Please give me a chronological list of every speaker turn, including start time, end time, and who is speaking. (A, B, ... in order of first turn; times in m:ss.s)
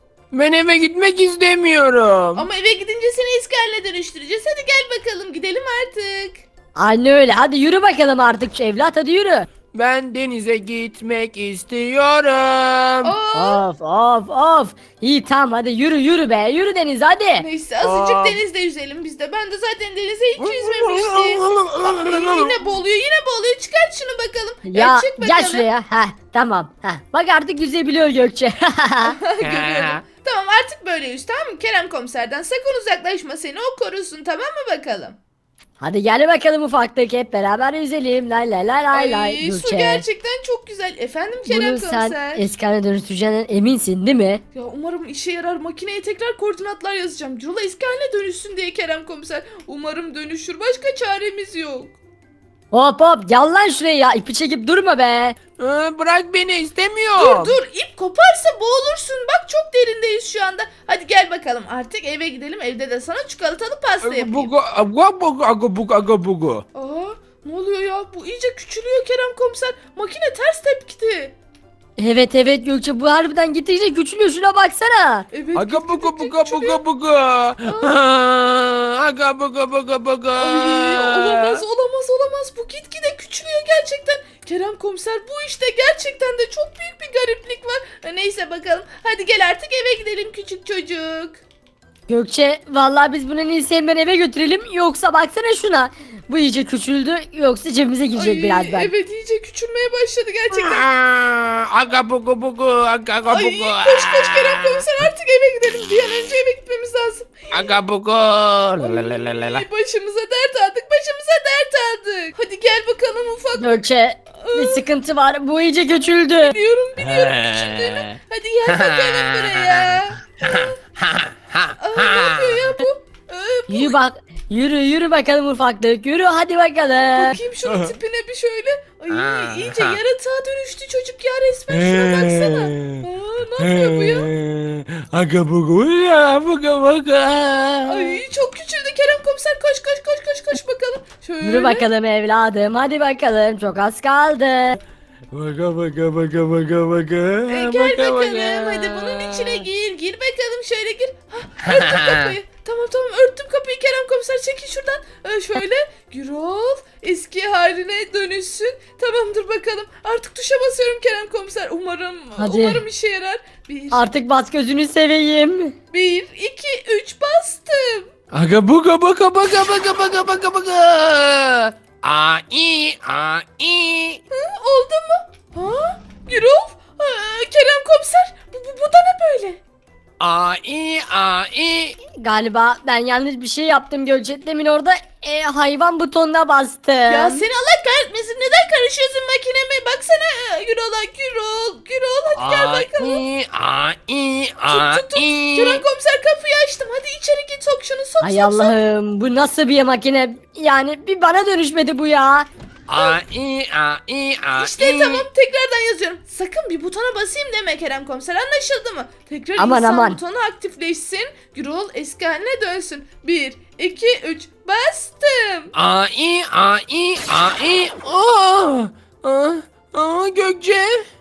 0:00.3-0:02.5 A
0:02.4-0:06.4 B
0:06.8-0:09.5 C
0:09.7-0:13.1 A
0:13.0-0:13.6 B
0:13.3-0:17.4 C
0:17.4-0:25.7 B
0:17.8-0:18.4 A
0:20.4-0:22.6 A
0:24.6-0:29.2 C
0:29.0-0:35.2 B
0:29.4-0:30.0 A
0:35.8-0:40.0 C
0:38.9-0:42.4 B
0:41.4-0:44.4 C
0:44.5-0:51.9 B
0:52.7-0:55.4 C
0:55.6-0:57.6 A
0:57.2-1:04.5 B
1:04.0-1:06.6 A
1:06.7-1:11.3 B
1:12.0-1:15.3 C
1:15.3-1:16.8 B
1:15.5-1:21.6 A
1:17.6-1:17.9 B
1:20.4-1:31.4 B
1:32.1-1:38.9 C
1:38.1-1:40.8 B
1:40.6-1:44.8 A
1:43.3-1:47.5 B
1:47.5-1:49.6 A
1:48.8-1:53.8 B
1:53.6-1:56.5 C
1:54.4-1:54.8 B
1:56.4-2:00.8 B
1:57.0-1:58.2 A
1:58.7-2:02.6 A
2:01.8-2:04.0 B
2:03.7-2:07.4 C
2:07.1-2:14.3 B
2:09.1-2:10.0 A
2:11.7-2:13.0 A
2:13.6-2:18.2 A
2:17.9-2:21.9 B
2:21.4-2:24.8 C
2:25.3-2:29.6 A
2:27.5-2:44.0 B
2:31.6-2:32.3 A
2:42.4-2:42.8 C
2:43.9-2:45.7 C
2:45.9-2:48.1 B
2:48.3-2:54.2 A
2:54.3-2:59.6 B
3:00.2-3:02.0 A
3:02.2-3:07.4 C
3:07.1-3:13.2 B
3:12.4-3:15.8 A
3:14.7-3:18.7 B
3:18.2-3:22.5 C
3:22.9-3:25.2 A
3:24.5-3:35.7 B
3:29.6-3:30.2 C
3:35.7-3:41.0 A